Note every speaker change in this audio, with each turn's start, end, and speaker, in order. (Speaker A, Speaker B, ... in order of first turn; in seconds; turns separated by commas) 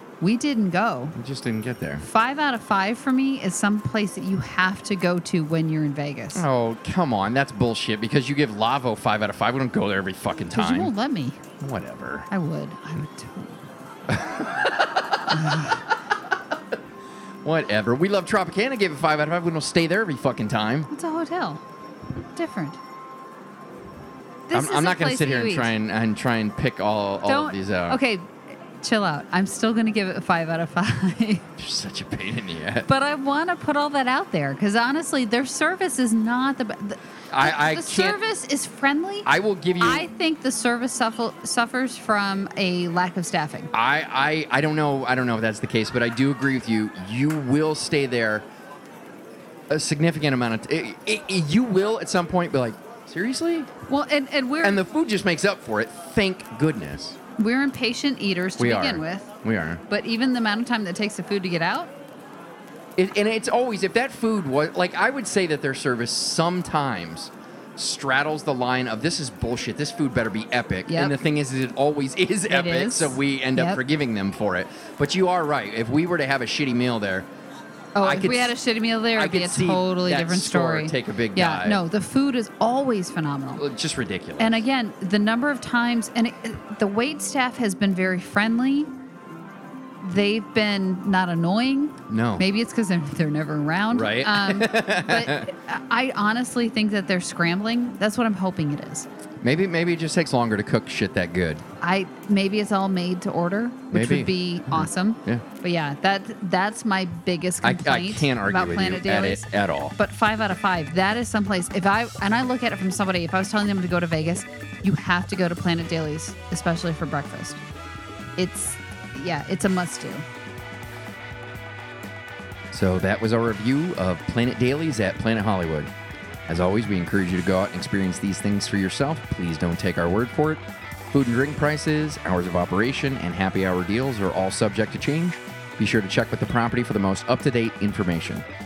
Speaker A: 0.2-1.2, Speaker B: 1.1-2.0, Speaker A: 2.0-6.5, Speaker B: 6.3-10.9, Speaker A: 10.5-11.4, Speaker B: 11.6-12.3, Speaker A: 12.3-13.7, Speaker B: 14.1-15.8, Speaker A: 15.3-15.8, Speaker B: 17.4-20.9, Speaker A: 20.9-21.6, Speaker A: 22.4-22.8, Speaker A: 24.5-25.7, Speaker B: 24.5-28.0, Speaker A: 27.3-31.5, Speaker B: 31.6-32.9, Speaker A: 32.9-43.7, Speaker B: 37.3-38.2, Speaker B: 39.3-40.1, Speaker B: 43.7-48.5, Speaker B: 49.7-53.7, Speaker A: 53.9-54.8, Speaker B: 54.6-57.2, Speaker A: 57.4-59.3, Speaker B: 58.6-59.8, Speaker A: 59.9-61.9, Speaker B: 63.0-77.3, Speaker A: 70.9-71.1, Speaker A: 72.5-73.8, Speaker A: 78.0-83.6, Speaker B: 78.0-78.5, Speaker B: 79.1-81.8, Speaker B: 83.6-84.7, Speaker A: 84.4-88.9, Speaker A: 90.0-99.1, Speaker B: 92.1-92.5, Speaker B: 93.9-95.5, Speaker B: 99.4-101.6, Speaker A: 101.8-117.6, Speaker B: 103.9-105.4, Speaker B: 107.6-110.0, Speaker A: 118.4-120.2, Speaker B: 122.7-125.9, Speaker B: 126.5-138.4